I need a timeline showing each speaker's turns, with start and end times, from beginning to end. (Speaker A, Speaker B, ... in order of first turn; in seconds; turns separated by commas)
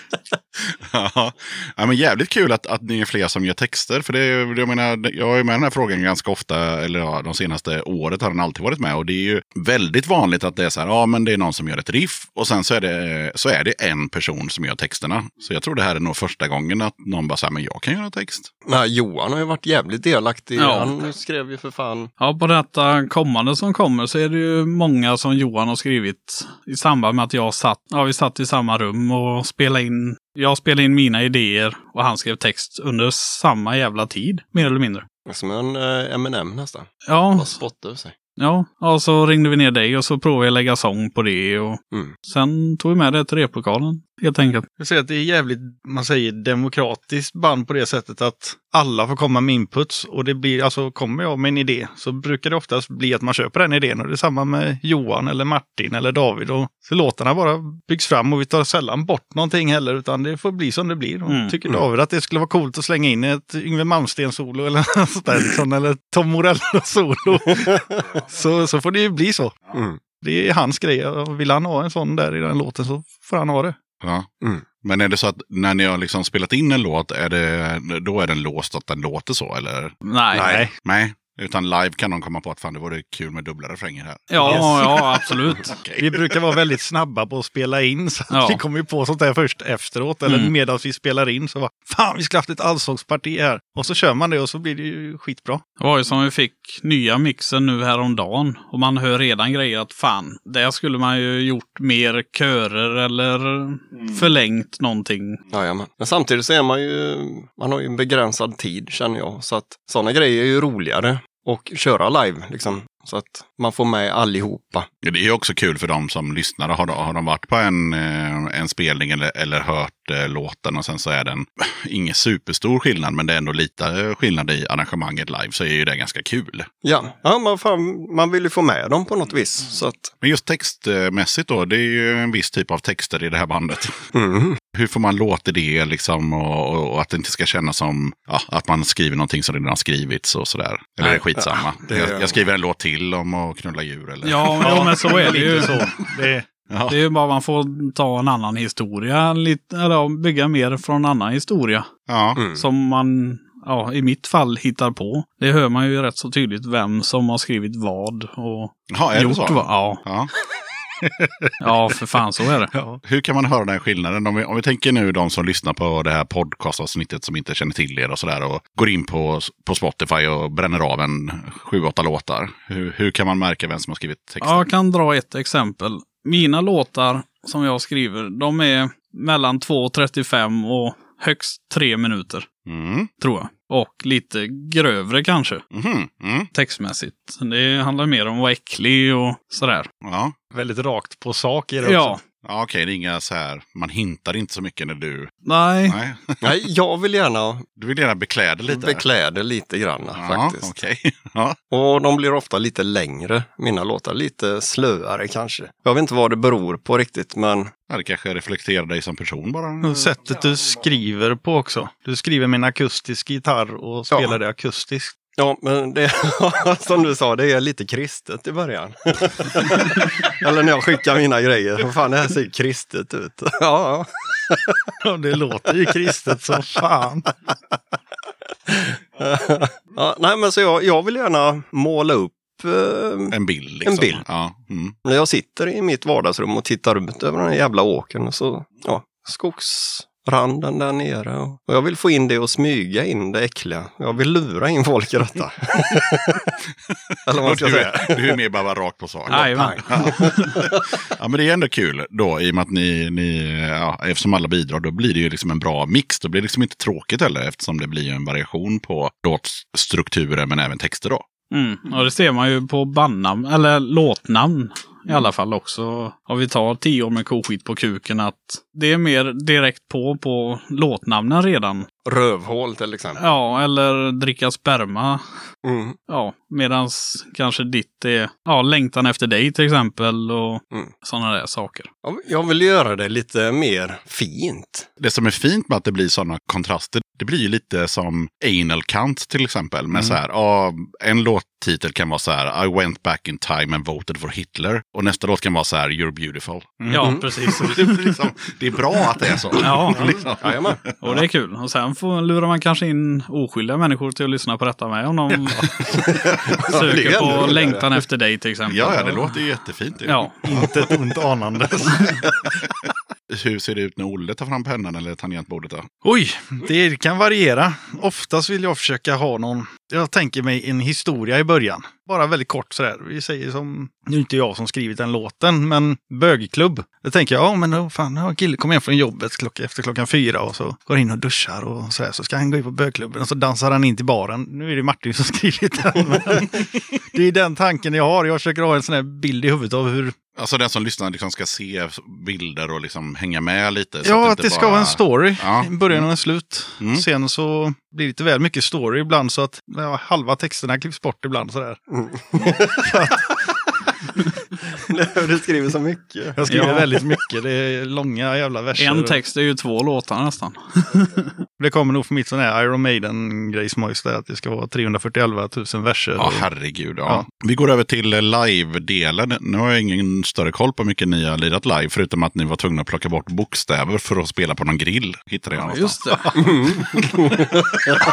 Speaker A: 0.6-18.5, Speaker B: 18.7-22.1, Speaker C: 20.6-20.9, Speaker C: 22.2-35.1, Speaker B: 35.3-38.1, Speaker C: 37.1-37.6, Speaker C: 38.4-44.7, Speaker D: 44.8-69.5, Speaker C: 61.3-61.6, Speaker B: 69.7-70.0, Speaker D: 70.2-73.8, Speaker A: 74.0-74.3, Speaker A: 74.8-80.0, Speaker C: 80.0-80.6, Speaker D: 80.4-80.7, Speaker A: 80.6-86.6, Speaker C: 84.3-85.8, Speaker D: 84.4-85.0, Speaker D: 86.0-95.6, Speaker C: 88.3-88.6, Speaker C: 90.3-90.5, Speaker C: 95.8-105.4, Speaker B: 105.5-114.9, Speaker A: 115.0-126.7, Speaker B: 126.8-130.1, Speaker A: 130.2-134.1, Speaker B: 134.1-134.6, Speaker A: 134.7-145.7, Speaker B: 141.0-142.4, Speaker C: 144.2-145.9, Speaker D: 144.6-146.5, Speaker A: 146.7-147.0, Speaker C: 146.9-151.9, Speaker A: 152.1-152.4, Speaker B: 152.4-152.6, Speaker C: 152.5-160.0, Speaker A: 158.9-160.3, Speaker D: 161.0-161.7, Speaker C: 161.6-162.7, Speaker D: 162.7-163.0, Speaker A: 163.0-174.7, Speaker C: 174.4-182.5, Speaker A: 182.7-183.1, Speaker C: 183.2-185.6, Speaker A: 185.7-186.5, Speaker C: 186.5-189.9, Speaker A: 190.0-190.4, Speaker D: 190.5-192.2, Speaker C: 191.8-192.2, Speaker A: 192.4-195.3, Speaker C: 195.4-196.0, Speaker A: 195.9-196.5, Speaker B: 196.4-197.7, Speaker A: 197.8-199.1, Speaker B: 198.7-200.8, Speaker A: 200.2-201.6, Speaker B: 201.7-207.7, Speaker A: 207.9-210.1, Speaker D: 209.8-215.1, Speaker B: 214.1-214.4, Speaker B: 215.4-224.9, Speaker D: 225.0-227.3, Speaker B: 226.3-226.6, Speaker B: 228.7-234.2, Speaker A: 233.3-235.0, Speaker B: 235.1-246.5, Speaker A: 246.9-261.2, Speaker B: 247.3-248.4, Speaker C: 249.3-250.5, Speaker B: 249.3-250.7, Speaker C: 261.5-271.9, Speaker B: 272.1-273.2, Speaker C: 273.2-275.2, Speaker B: 275.6-276.0, Speaker C: 276.1-281.9, Speaker B: 282.0-284.9, Speaker A: 285.0-301.2, Speaker D: 289.9-290.2, Speaker D: 296.8-297.8, Speaker C: 296.9-298.2, Speaker C: 299.6-300.1, Speaker B: 300.4-300.8, Speaker C: 301.0-305.7, Speaker B: 306.0-307.9, Speaker C: 306.6-309.1, Speaker A: 308.7-310.9, Speaker C: 310.1-310.5, Speaker D: 310.4-312.0, Speaker A: 313.3-315.9, Speaker D: 316.0-340.1, Speaker A: 340.4-346.1, Speaker D: 344.0-351.8, Speaker A: 346.8-347.1, Speaker B: 351.9-352.9, Speaker D: 352.9-353.2, Speaker B: 354.9-356.9, Speaker D: 356.4-359.2, Speaker C: 356.5-356.8, Speaker C: 358.8-361.3, Speaker D: 361.6-366.5, Speaker A: 366.2-377.1, Speaker C: 375.5-376.5, Speaker D: 376.2-376.4, Speaker B: 376.4-377.5